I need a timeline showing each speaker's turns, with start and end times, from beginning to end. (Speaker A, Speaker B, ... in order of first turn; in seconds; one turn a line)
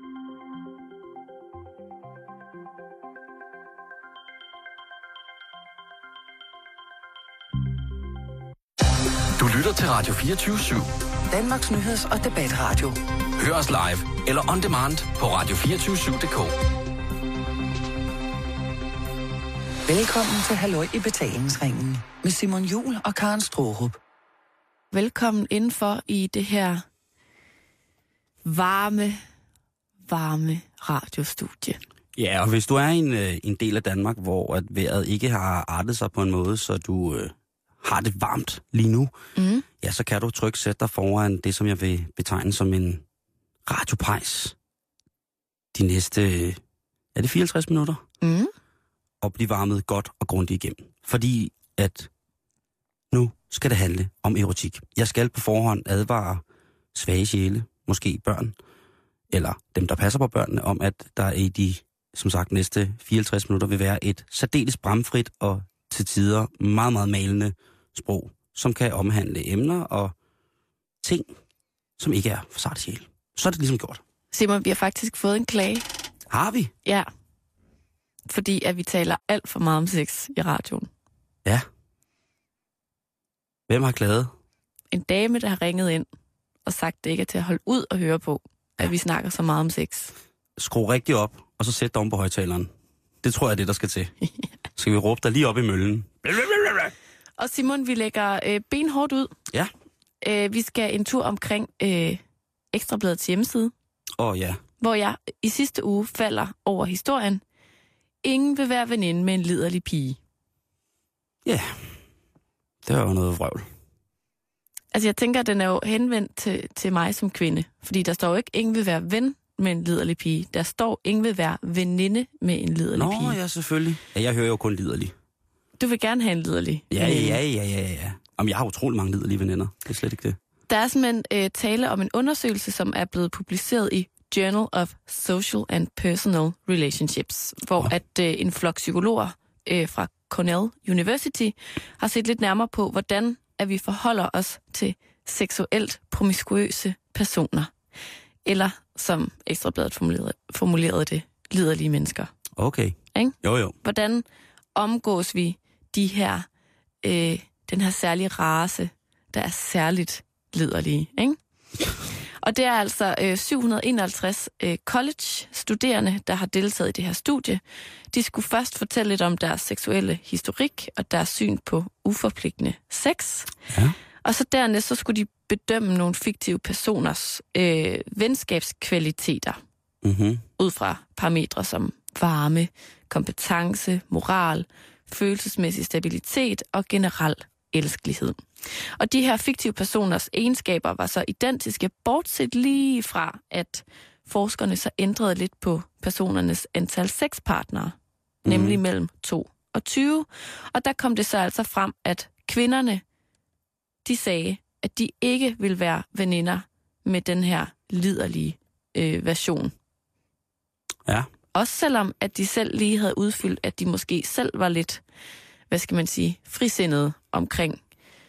Speaker A: 9.4-10.9
Speaker B: 11.3-13.0
Speaker A: 13.4-16.5
Speaker B: 19.9-23.9
Speaker C: 24.9-26.8
Speaker C: 28.4-29.2
Speaker C: 30.1-31.8
Speaker D: 32.2-39.1
Speaker C: 39.4-39.6
Speaker D: 39.8-43.0
Speaker D: 43.6-44.5
Speaker D: 45.7-46.6
Speaker D: 47.1-48.0
Speaker C: 48.2-48.5
Speaker D: 49.2-52.1
Speaker D: 53.1-56.4
Speaker D: 56.9-58.5
Speaker D: 59.3-70.1
Speaker D: 71.0-71.3
Speaker D: 72.0-74.0
Speaker C: 74.3-75.8
Speaker D: 76.3-76.7
Speaker C: 78.3-80.9
Speaker D: 83.7-84.3
Speaker C: 84.9-86.1
Speaker C: 86.7-90.1
Speaker D: 90.6-92.7
Speaker D: 93.2-94.1
Speaker D: 94.8-96.9
Speaker C: 97.4-99.3
Speaker C: 100.2-102.2
Speaker C: 102.7-103.7
Speaker D: 104.2-104.6
Speaker C: 104.8-107.4
Speaker C: 108.2-110.2
Speaker D: 111.4-111.9
Speaker D: 112.8-113.7
Speaker C: 114.9-123.4
Speaker D: 122.9-125.1
Speaker C: 125.8-127.4
Speaker D: 126.9-130.4
Speaker C: 130.7-147.7
Speaker C: 148.4-152.3
Speaker D: 152.6-153.8
Speaker C: 153.2-156.5
Speaker C: 157.0-161.4
Speaker C: 162.4-173.5
Speaker D: 173.7-174.0
Speaker C: 174.2-179.6
Speaker D: 180.0-180.4
Speaker C: 180.6-203.0
Speaker D: 198.5-198.8
Speaker C: 204.1-209.7
Speaker C: 211.6-215.0
Speaker C: 215.7-217.8